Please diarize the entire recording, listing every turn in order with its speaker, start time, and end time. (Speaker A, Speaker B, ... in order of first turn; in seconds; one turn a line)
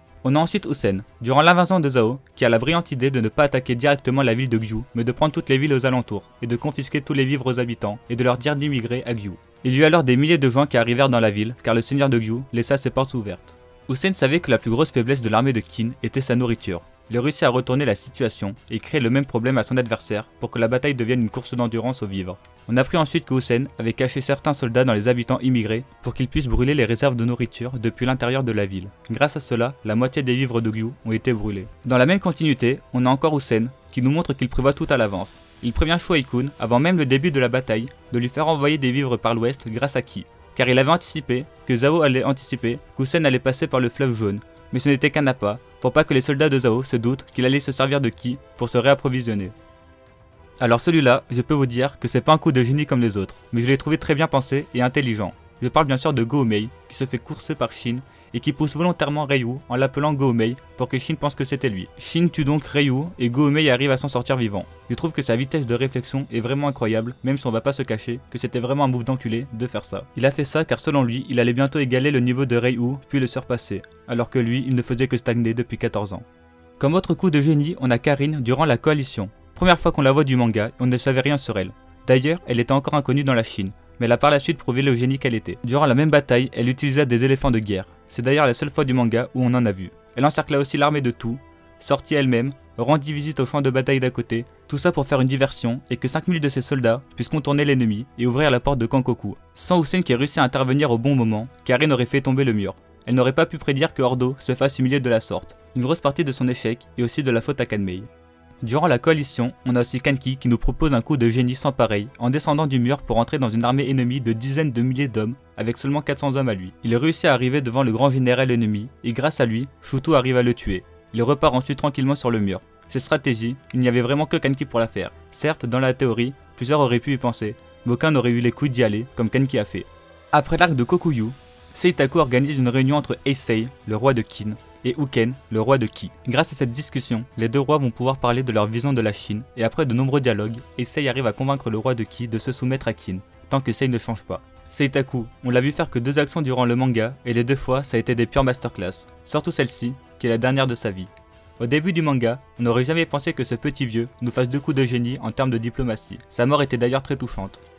Speaker A: 0.2-49.5
Speaker A: 50.6-76.2
Speaker A: 76.8-108.1
Speaker A: 108.6-157.6